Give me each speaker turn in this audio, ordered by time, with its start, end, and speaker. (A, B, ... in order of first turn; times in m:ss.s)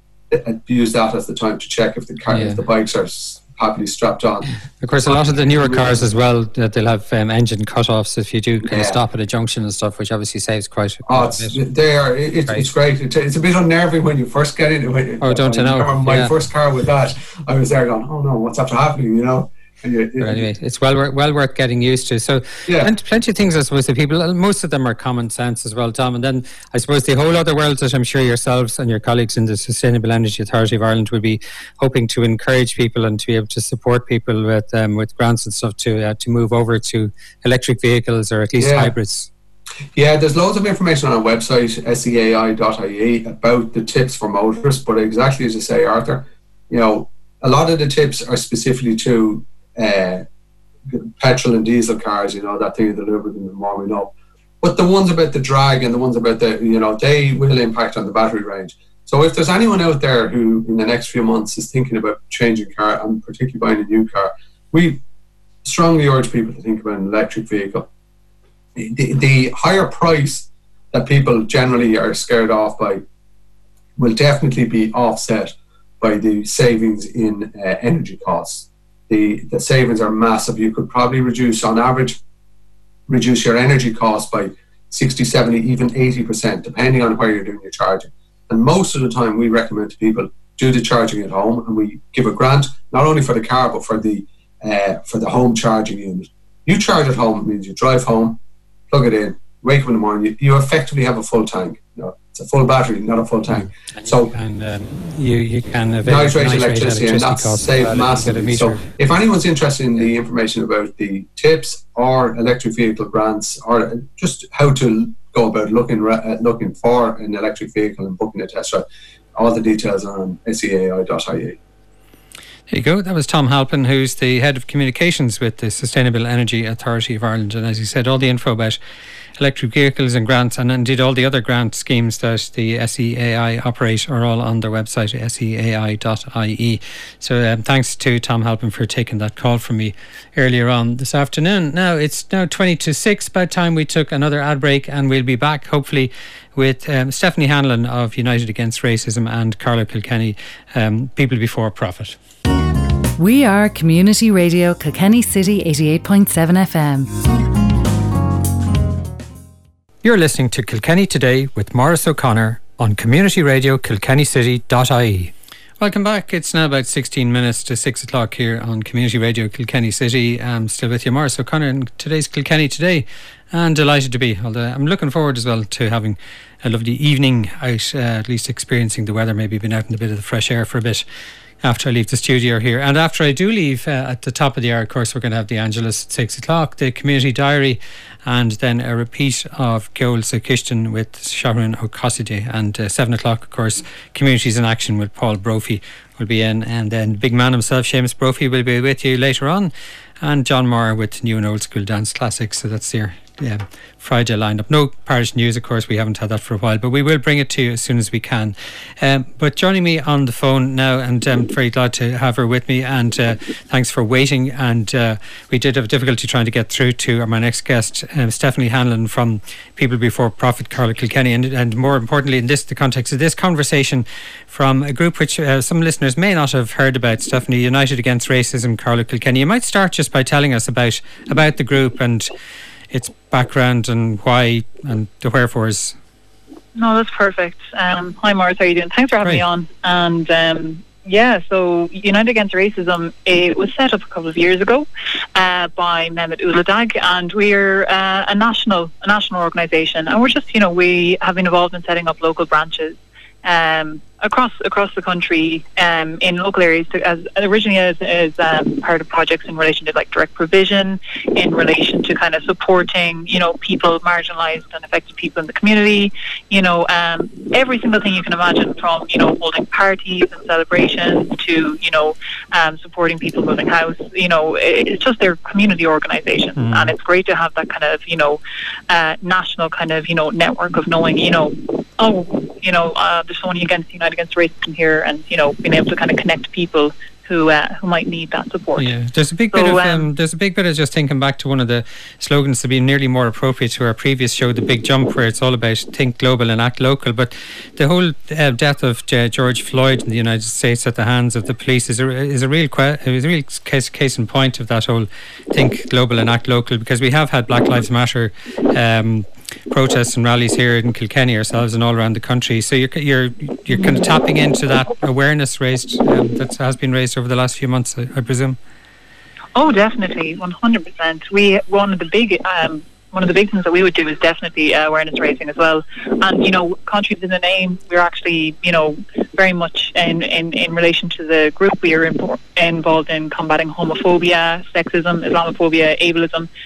0:00.3-0:04.5 A
0:02.3-0:02.6 B
0:04.8-0:11.6 B
0:05.6-0:06.0 A
0:08.6-0:09.0 A
0:11.1-0:20.5 A
0:15.2-0:16.3 B
0:20.2-0:39.3 B
0:22.7-0:22.9 A
0:38.6-0:38.9 A
0:40.0-0:50.2 A
0:50.9-1:05.0 A
1:05.6-1:07.9 A
1:08.8-1:13.0 A
1:14.0-1:22.2 A
1:23.1-1:38.4 A
1:38.9-1:44.4 A
1:43.6-1:48.8 B
1:46.0-2:01.6 A
2:02.7-2:08.8 B
2:09.4-2:32.2 B
2:33.2-2:37.1 C
2:40.0-3:01.0 B
3:01.6-3:52.3 B
3:52.9-3:56.0 B
3:56.8-4:48.9 D
4:36.6-4:36.9 B
4:48.8-5:18.6 B
4:49.5-4:50.1 D
5:19.6-5:36.5 D